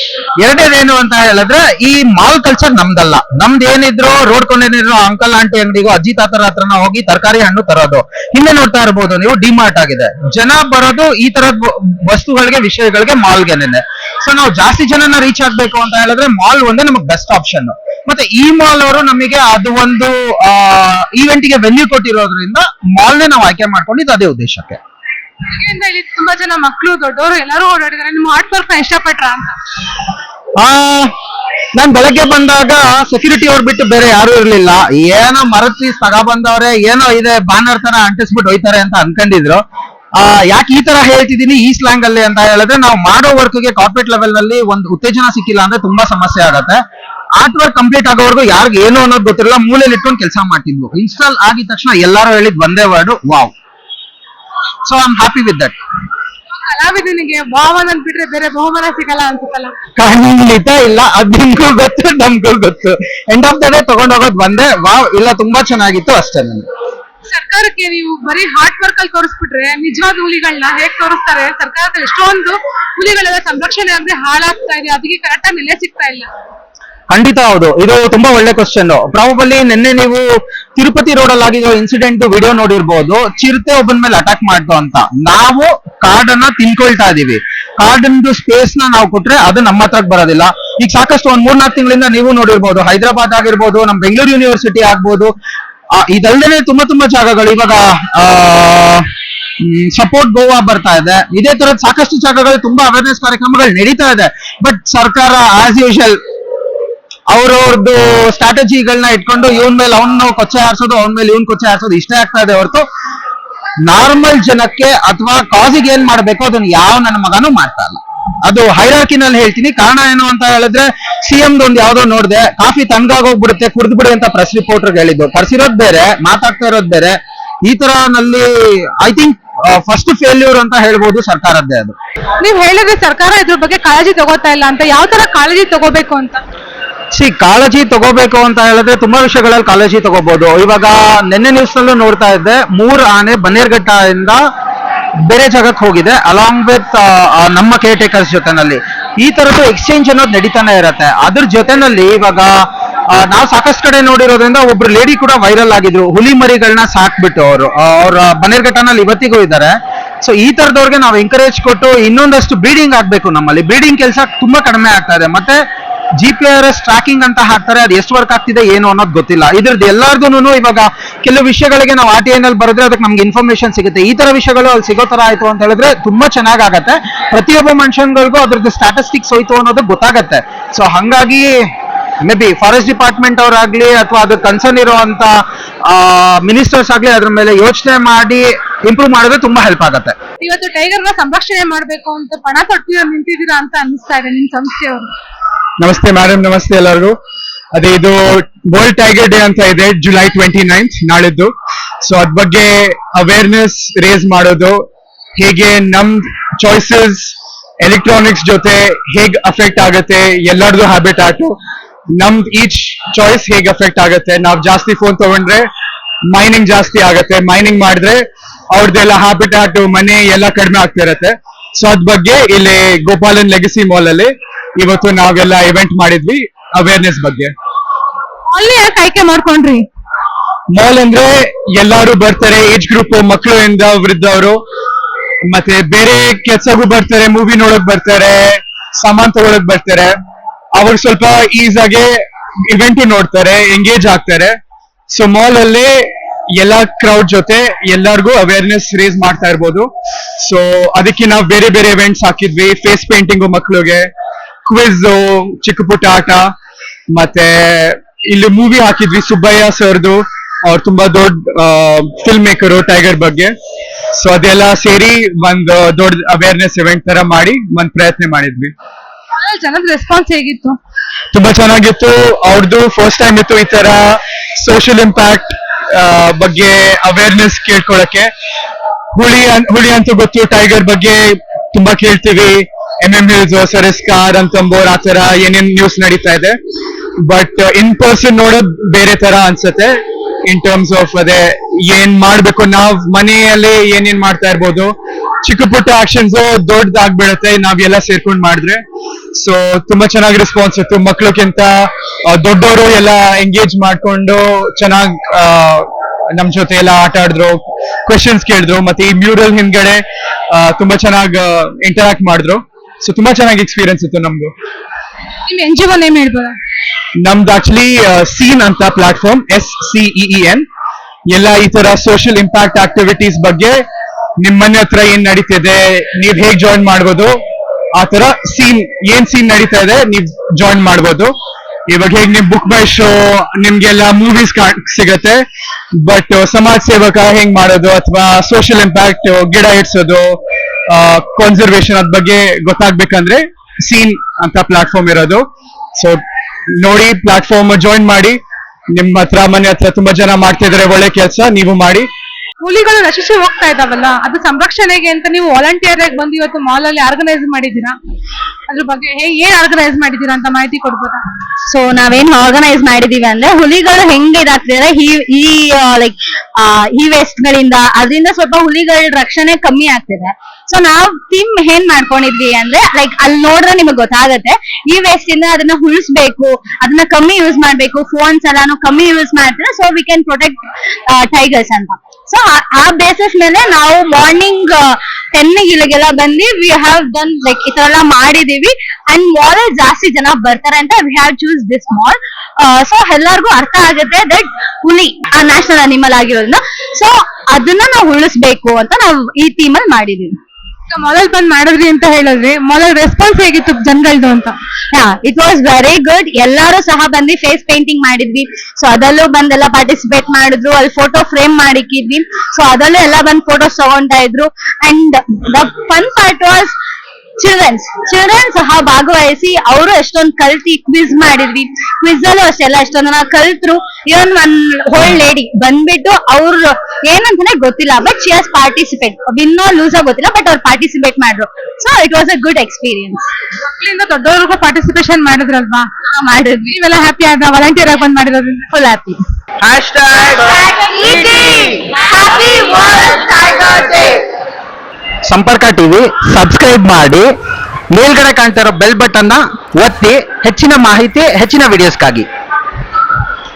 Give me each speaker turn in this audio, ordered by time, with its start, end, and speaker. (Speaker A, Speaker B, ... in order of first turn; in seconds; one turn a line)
Speaker A: 0.4-24.8
Speaker B: 25.5-29.6
Speaker A: 30.6-31.1
Speaker A: 31.7-39.6
Speaker A: 40.2-46.8
Speaker A: 47.4-53.5
Speaker A: 54.8-55.7
Speaker B: 56.5-59.7
Speaker A: 60.0-66.7
Speaker B: 67.2-76.3
Speaker A: 77.1-95.3
Speaker A: 95.9-99.1
Speaker A: 99.6-106.2
Speaker A: 107.3-112.8
Speaker A: 113.9-131.9
Speaker B: 132.4-136.4
Speaker A: 137.1-144.4
Speaker A: 145.2-165.6
Speaker A: 166.2-181.5
Speaker A: 182.2-190.1
Speaker B: 190.4-195.1
Speaker C: 195.8-197.1
Speaker C: 197.7-201.5
Speaker C: 202.0-204.8
Speaker C: 205.4-211.6
Speaker C: 212.2-215.7
Speaker C: 216.3-227.5
Speaker B: 228.5-229.8
Speaker C: 230.7-234.6
Speaker C: 235.5-240.1
Speaker C: 240.7-242.2
Speaker C: 242.7-244.6
Speaker C: 245.1-249.9
Speaker C: 250.4-254.1
Speaker C: 254.6-256.5
Speaker C: 257.1-263.5
Speaker C: 264.1-268.7
Speaker B: 269.4-270.8
Speaker C: 271.3-278.3
Speaker C: 279.1-286.6
Speaker C: 287.2-298.8
Speaker C: 299.3-314.5
Speaker B: 315.5-316.5
Speaker C: 317.2-320.6
Speaker C: 321.3-323.8
Speaker C: 324.4-327.3
Speaker C: 327.9-331.3
Speaker C: 331.9-335.4
Speaker C: 336.0-346.2
Speaker C: 346.8-348.4
Speaker C: 348.9-352.1
Speaker B: 352.6-357.9
Speaker B: 358.7-361.2
Speaker D: 361.7-400.4
Speaker B: 400.9-404.6
Speaker D: 404.9-416.7
Speaker D: 417.4-433.3
Speaker B: 433.7-435.9
Speaker D: 436.1-436.8
Speaker B: 436.7-438.6
Speaker D: 438.7-439.2
Speaker A: 439.6-440.4
Speaker D: 440.5-444.2
Speaker A: 445.2-447.3
Speaker A: 447.9-452.3